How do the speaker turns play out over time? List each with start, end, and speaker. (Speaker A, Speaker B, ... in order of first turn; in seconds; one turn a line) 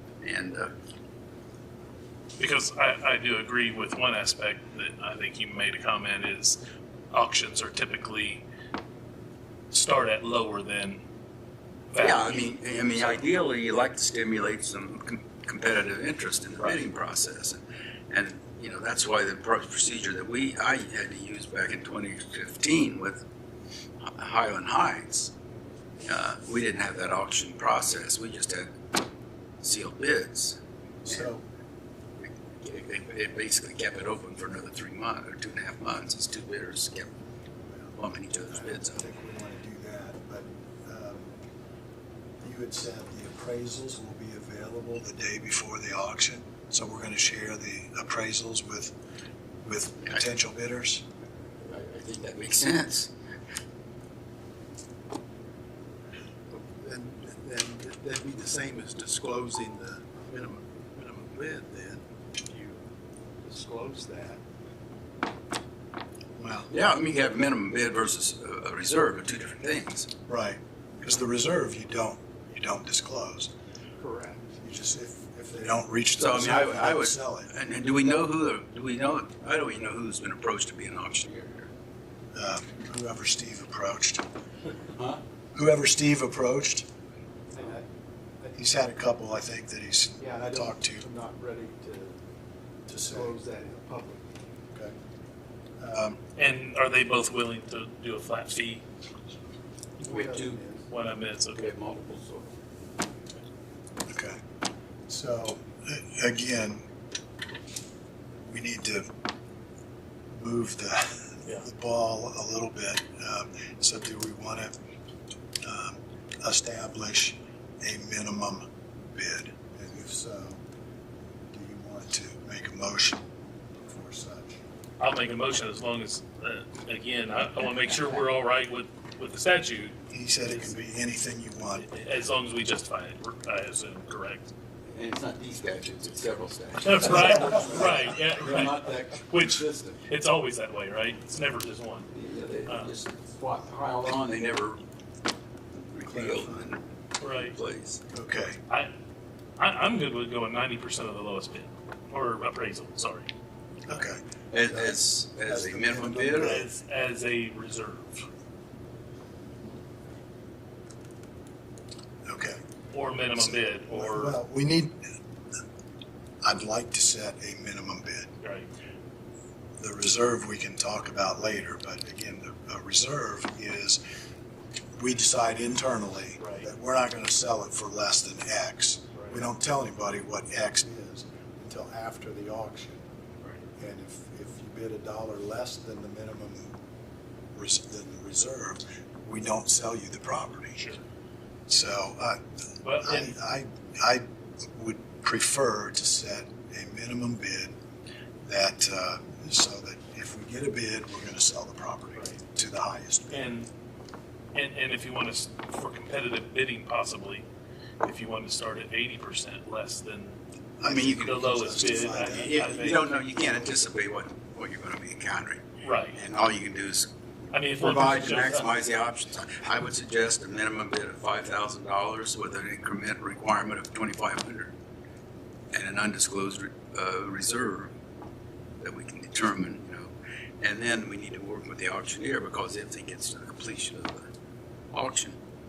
Speaker A: 0.2-0.7
Speaker B: 2.4-6.6
Speaker B: 7.1-8.4
Speaker B: 9.7-11.0
Speaker B: 11.9-12.5
Speaker A: 12.0-23.2
Speaker A: 24.0-25.3
Speaker A: 26.0-28.7
Speaker A: 29.6-31.3
Speaker C: 31.0-31.4
Speaker A: 32.2-37.1
Speaker C: 37.6-41.4
Speaker A: 38.0-39.0
Speaker C: 42.4-49.0
Speaker C: 49.6-51.0
Speaker A: 51.6-53.1
Speaker D: 56.5-62.8
Speaker D: 63.4-64.4
Speaker C: 66.4-66.7
Speaker A: 66.7-70.1
Speaker C: 70.3-73.5
Speaker D: 74.0-74.5
Speaker C: 74.6-77.5
Speaker A: 76.2-81.7
Speaker C: 82.3-84.2
Speaker A: 84.9-85.2
Speaker C: 85.5-86.9
Speaker D: 87.5-87.9
Speaker C: 88.5-91.1
Speaker D: 90.2-92.2
Speaker C: 92.9-93.4
Speaker D: 93.0-94.2
Speaker C: 95.8-96.2
Speaker B: 96.4-98.8
Speaker A: 100.0-100.6
Speaker D: 100.0-100.8
Speaker B: 100.9-101.7
Speaker A: 101.5-102.5
Speaker C: 104.1-104.4
Speaker C: 105.1-106.8
Speaker C: 108.5-109.1
Speaker C: 110.3-114.7
Speaker C: 115.6-120.6
Speaker C: 121.5-124.6
Speaker B: 125.0-130.8
Speaker C: 130.1-131.8
Speaker B: 131.7-134.5
Speaker A: 134.9-140.0
Speaker B: 136.8-142.1
Speaker A: 142.1-144.8
Speaker B: 142.7-142.9
Speaker A: 145.9-148.0
Speaker C: 146.1-146.7
Speaker B: 147.2-147.6
Speaker C: 148.1-148.6
Speaker B: 149.6-153.3
Speaker C: 153.9-156.7
Speaker A: 154.5-156.7
Speaker B: 156.4-158.3
Speaker C: 162.2-162.6
Speaker B: 162.9-164.4
Speaker C: 163.3-165.0
Speaker C: 166.4-168.3
Speaker B: 168.4-168.7
Speaker C: 169.8-174.0
Speaker C: 175.0-183.0
Speaker B: 176.4-176.7
Speaker B: 179.1-179.4
Speaker C: 183.8-186.8
Speaker C: 187.5-190.8
Speaker B: 190.7-191.0
Speaker C: 191.7-192.4
Speaker B: 192.8-193.3
Speaker C: 193.0-194.2
Speaker C: 194.8-197.7
Speaker C: 198.4-203.5
Speaker B: 203.3-203.7
Speaker B: 204.5-207.5
Speaker B: 208.0-210.4
Speaker C: 210.8-212.9
Speaker A: 210.8-217.1
Speaker B: 211.0-213.2
Speaker B: 215.8-216.2
Speaker B: 217.5-218.7
Speaker A: 217.7-224.7
Speaker A: 225.7-227.9
Speaker A: 228.8-234.3
Speaker A: 234.9-235.4